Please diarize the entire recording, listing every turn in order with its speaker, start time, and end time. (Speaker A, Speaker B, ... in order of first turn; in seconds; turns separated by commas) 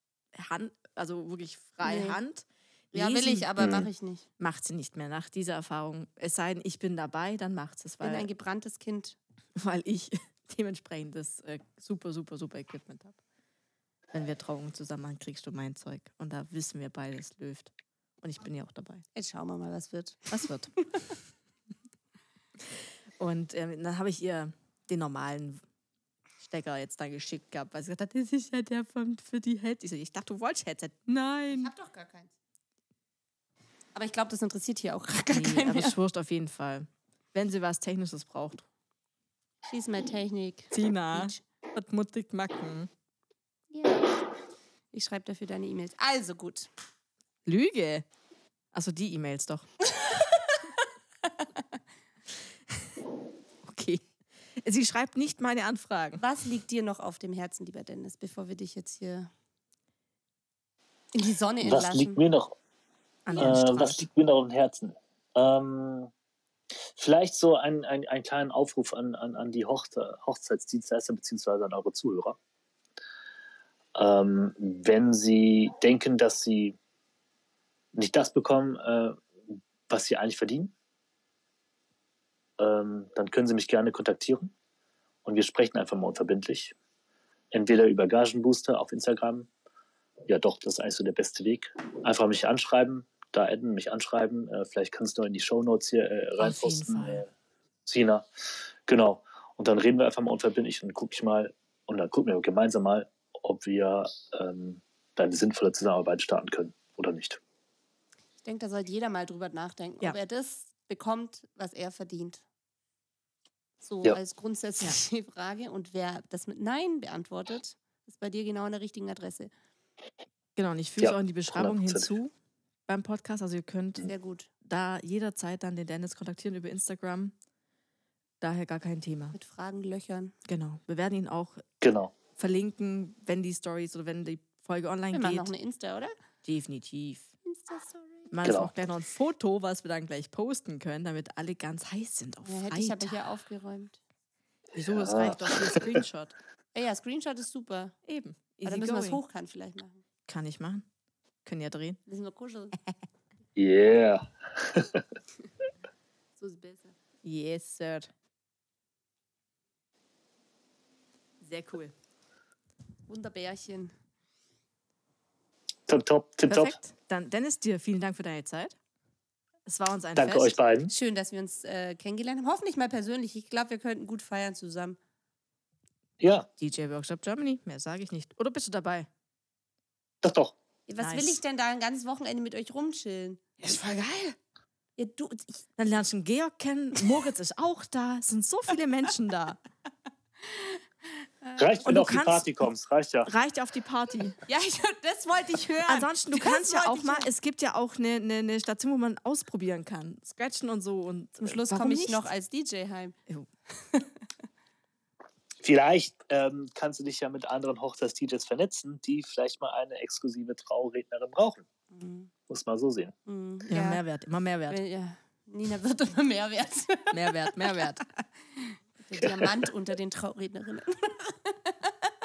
Speaker A: 0.3-3.5, Speaker B: 1.8-2.2, Speaker B: 2.9-4.2, Speaker C: 3.6-3.9, Speaker A: 4.4-8.3, Speaker B: 8.0-9.2, Speaker A: 9.6-13.2, Speaker A: 14.1-19.0, Speaker B: 19.1-21.1, Speaker A: 20.3-21.1, Speaker A: 22.7-25.6, Speaker A: 26.4-31.7, Speaker B: 31.5-32.3, Speaker B: 33.9-35.9, Speaker A: 35.3-38.7, Speaker B: 39.7-41.4, Speaker A: 40.7-42.9, Speaker B: 43.7-44.0, Speaker B: 44.9-46.7, Speaker A: 47.5-48.0, Speaker A: 48.7-50.6, Speaker A: 53.6-56.2, Speaker B: 56.2-59.3, Speaker B: 61.1-62.2, Speaker C: 61.6-62.5, Speaker A: 63.2-64.0, Speaker C: 63.4-66.1, Speaker C: 66.9-72.4, Speaker C: 73.9-76.8, Speaker C: 77.9-80.7, Speaker C: 82.6-84.5, Speaker C: 85.2-86.7, Speaker C: 87.5-89.5, Speaker C: 90.3-97.3, Speaker A: 96.4-97.2, Speaker C: 97.8-98.3, Speaker C: 98.9-107.4, Speaker B: 108.4-112.4, Speaker B: 113.8-119.5, Speaker A: 120.5-122.3, Speaker C: 121.0-122.1, Speaker A: 122.9-124.1, Speaker B: 124.1-124.5, Speaker A: 124.6-127.3, Speaker A: 128.4-129.3, Speaker B: 129.3-130.3, Speaker A: 130.4-131.6, Speaker C: 131.8-132.1, Speaker A: 132.3-135.5, Speaker B: 135.1-136.2, Speaker A: 136.4-137.3, Speaker B: 137.4-138.3, Speaker A: 138.3-143.2, Speaker C: 138.4-138.7, Speaker B: 142.4-144.0, Speaker A: 144.7-146.3, Speaker C: 144.9-146.0, Speaker B: 146.7-148.0, Speaker A: 148.1-149.2, Speaker B: 148.7-150.0, Speaker A: 150.3-150.8, Speaker A: 151.4-152.0, Speaker B: 152.1-152.8, Speaker C: 153.6-155.0, Speaker B: 156.4-156.9, Speaker A: 157.2-158.1, Speaker A: 161.4-161.9, Speaker B: 163.1-163.9, Speaker C: 165.9-166.8, Speaker A: 166.5-168.8, Speaker A: 169.7-170.6, Speaker C: 170.2-170.9, Speaker B: 170.9-175.0, Speaker C: 176.2-176.5, Speaker A: 176.6-179.1, Speaker C: 180.2-180.5, Speaker B: 180.9-183.4, Speaker A: 181.0-181.4, Speaker A: 183.6-184.4, Speaker B: 185.0-185.6, Speaker A: 185.8-189.6, Speaker B: 190.5-190.8, Speaker B: 191.4-191.8, Speaker C: 191.6-193.3, Speaker A: 191.8-192.5, Speaker A: 193.2-194.4, Speaker B: 194.5-197.3, Speaker A: 195.8-202.3, Speaker B: 201.4-203.2, Speaker C: 205.6-211.6, Speaker B: 211.9-212.3, Speaker C: 212.5-213.1, Speaker B: 213.2-214.0, Speaker A: 213.7-214.8, Speaker B: 214.7-221.9, Speaker A: 217.1-218.0